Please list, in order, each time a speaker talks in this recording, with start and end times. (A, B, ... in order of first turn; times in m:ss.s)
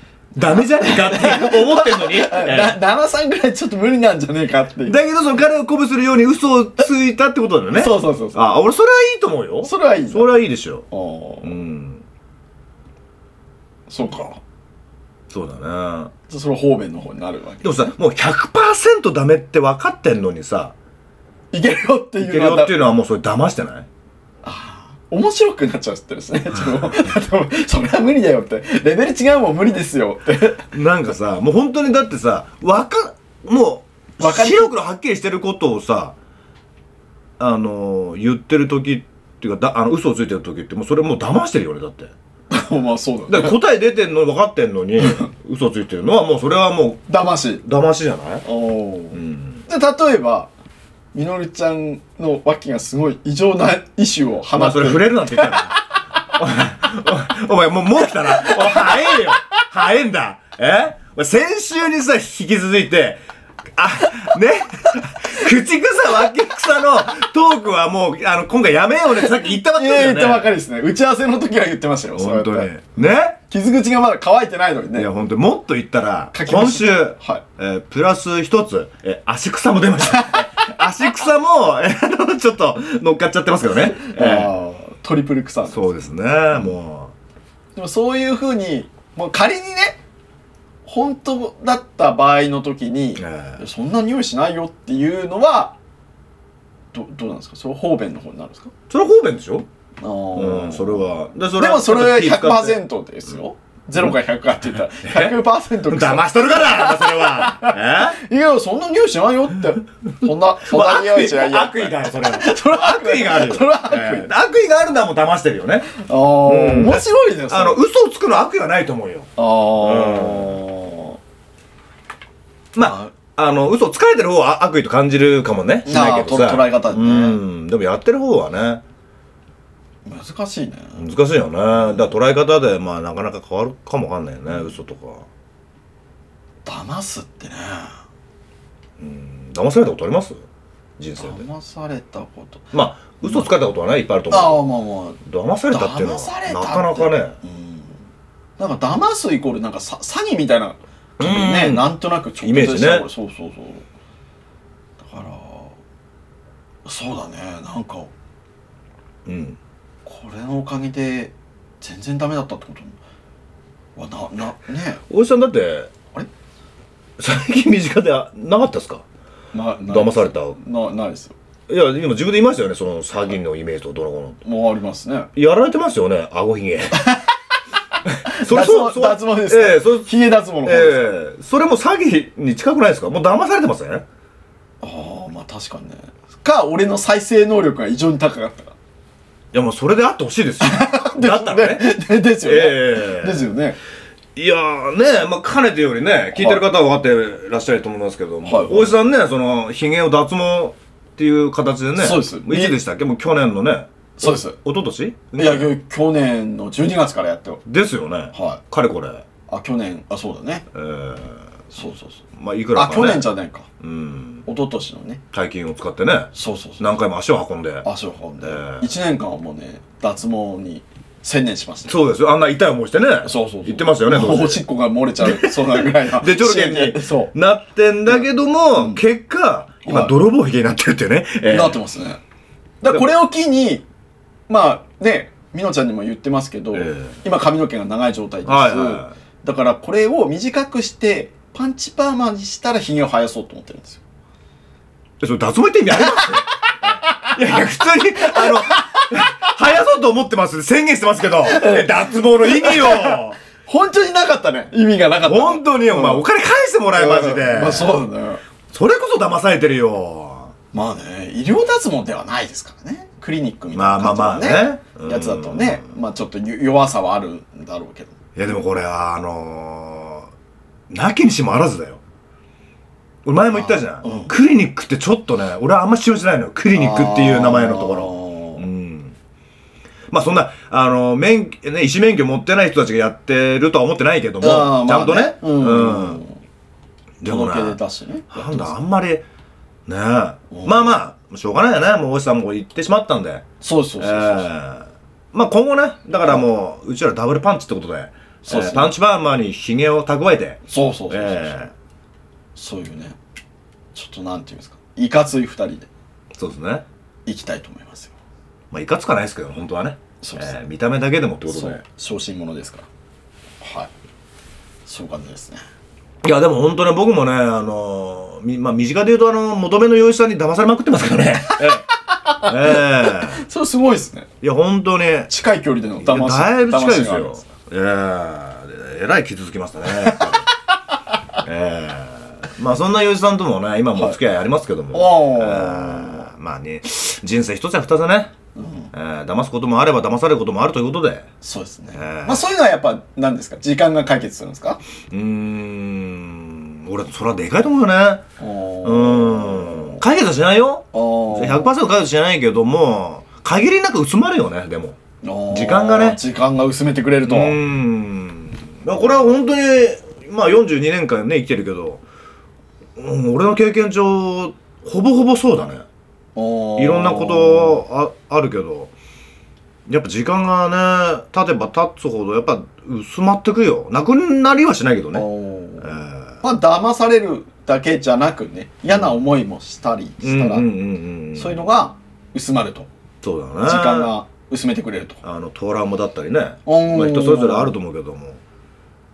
0:00.4-0:02.8 A
0:00.5-0:05.0 B
0:04.8-0:10.8 A
0:07.7-0:08.5 B
0:09.6-0:10.3 B
0:10.9-0:11.5 B
0:11.4-0:12.0 A
0:13.9-0:14.4 B
0:15.3-0:16.1 A
0:16.3-0:17.9 B
0:17.6-0:20.7 A
0:21.5-0:22.8 B
0:22.2-0:23.9 A
0:24.4-0:30.6 B
0:26.6-0:27.1 A
0:30.7-0:36.2 A
0:34.2-0:34.7 B
0:37.4-0:42.1 A
0:42.5-0:43.5 B
0:43.3-0:47.0 A
0:47.1-0:47.6 B
0:47.6-0:48.4 A
0:48.4-0:50.5 B
0:49.1-0:49.6 A
0:51.1-0:55.7 B
0:54.5-1:03.2 A
0:58.4-0:59.2 B
1:03.7-1:10.5 A
1:09.7-1:12.7 B
1:12.2-1:13.4 A
1:13.5-1:15.1 B
1:14.9-1:24.5 A
1:16.3-1:17.4 B
1:20.2-1:20.5 B
1:24.0-1:25.8 B
1:25.7-1:27.1 A
1:27.7-1:30.0 B
1:30.8-1:35.8 B
1:33.2-1:33.6 A
1:36.9-1:38.7 B
1:38.9-1:39.7 A
1:40.0-1:41.0 B
1:40.3-1:42.8 A
1:41.6-1:54.3 B
1:45.0-1:48.2 A
1:50.6-2:00.6 A
1:56.0-1:57.8 B
1:59.4-2:01.2 B
2:02.7-2:08.8 A
2:02.8-2:03.1 B
2:05.8-2:07.4 B
2:10.0-2:11.0 B
2:11.0-2:15.3 A
2:16.6-2:18.0 B
2:19.0-2:20.4 A
2:21.0-2:21.5 A
2:21.2-2:22.7 B
2:22.7-2:24.6 A
2:24.3-2:25.2 B
2:25.2-2:27.3 A
2:25.7-2:27.9 B
2:28.6-2:33.8 B
2:31.2-2:31.9 A
2:32.4-2:33.0 A
2:35.0-2:35.8 B
2:36.8-2:38.1 B
2:39.2-2:39.6 A
2:40.0-2:43.0 B
2:44.0-2:45.0 B
2:45.1-2:45.9 A
2:47.2-2:49.0 A
2:49.5-2:51.4 B
2:49.9-2:50.6 A
2:51.7-2:54.4 A
2:54.4-2:55.3 B
2:55.3-2:57.1 A
2:57.0-2:57.2 B
2:58.0-3:00.1 A
2:58.2-3:01.1 B
3:00.6-3:04.0 A
3:04.8-3:08.7 B
3:09.5-3:11.9 A
3:10.6-3:13.8 B
3:12.4-3:13.5 A
3:14.4-3:25.7 A
3:16.3-3:16.6 B
3:18.4-3:18.9 B
3:22.0-3:22.8 B
3:24.2-3:24.6 B
3:25.4-3:27.6 B
3:27.6-3:29.2 A
3:28.3-3:28.6 B
3:29.5-3:30.7 B
3:30.7-3:31.4 A
3:31.7-3:32.2 B
3:32.4-3:33.3 A
3:32.7-3:33.7 B
3:33.8-3:34.4 A
3:34.4-3:35.2 B
3:35.3-3:37.8 A
3:36.3-3:36.8 B
3:37.8-3:41.9 B
3:38.4-3:38.9 A
3:41.9-3:44.6 A
3:43.2-3:47.3 B
3:45.2-3:51.8 A
3:48.7-3:49.0 B
3:49.8-3:50.1 B
3:51.5-3:52.2 B
3:52.8-3:53.8 B
3:54.5-4:04.0 B
3:56.7-3:57.2 A
3:58.4-3:59.1 A
4:05.2-4:06.5 A
4:07.2-4:13.4 A
4:08.3-4:09.2 B
4:11.4-4:16.2 B
4:15.2-4:18.0 A
4:16.9-4:18.4 B
4:18.7-4:20.5 A
4:20.7-4:28.2 B
4:23.7-4:25.8 A
4:28.4-4:30.3 A
4:30.9-4:32.0 A
4:33.2-4:39.1 A
4:33.5-4:34.3 B
4:36.7-4:38.6 B
4:40.1-4:46.2 A
4:44.4-4:46.4 B
4:47.2-4:47.8 A
4:47.2-4:48.7 B
4:48.3-4:49.2 A
4:49.9-4:53.4 A
4:50.5-4:51.0 B
4:53.6-4:54.5 B
4:54.0-5:01.7 A
4:58.4-4:58.9 B
5:00.7-5:01.7 B
5:02.5-5:03.2 B
5:03.9-5:05.9 B
5:06.4-5:06.8 A
5:07.2-5:08.1 B
5:08.7-5:11.8 A
5:10.2-5:10.6 B
5:11.5-5:12.9 B
5:13.6-5:13.9 B
5:14.8-5:15.6 B
5:16.2-5:21.8 A
5:21.6-5:24.3 B
5:22.4-5:23.4 A
5:24.4-5:25.3 A
5:25.3-5:27.4 B
5:26.0-5:30.4 A
5:30.1-5:30.4 B
5:31.4-5:38.3 A
5:34.9-5:36.3 B
5:38.5-5:38.9 B
5:38.9-5:41.3 A
5:41.4-5:44.8 B
5:42.0-5:42.4 A
5:45.1-5:48.2 A
5:48.4-5:50.0 B
5:48.8-5:55.0 A
5:50.9-5:51.7 B
5:55.2-5:57.6 B
5:55.5-5:56.2 A
5:57.2-6:02.0 A
6:03.0-6:05.8 A
6:06.4-6:07.8 B
6:06.8-6:08.9 A
6:09.8-6:15.3 A
6:15.1-6:20.6 B
6:15.8-6:16.4 A
6:20.2-6:21.6 A
6:21.3-6:22.9 B
6:23.2-6:24.1 A
6:23.6-6:25.2 B
6:25.2-6:28.4 A
6:26.6-6:27.8 B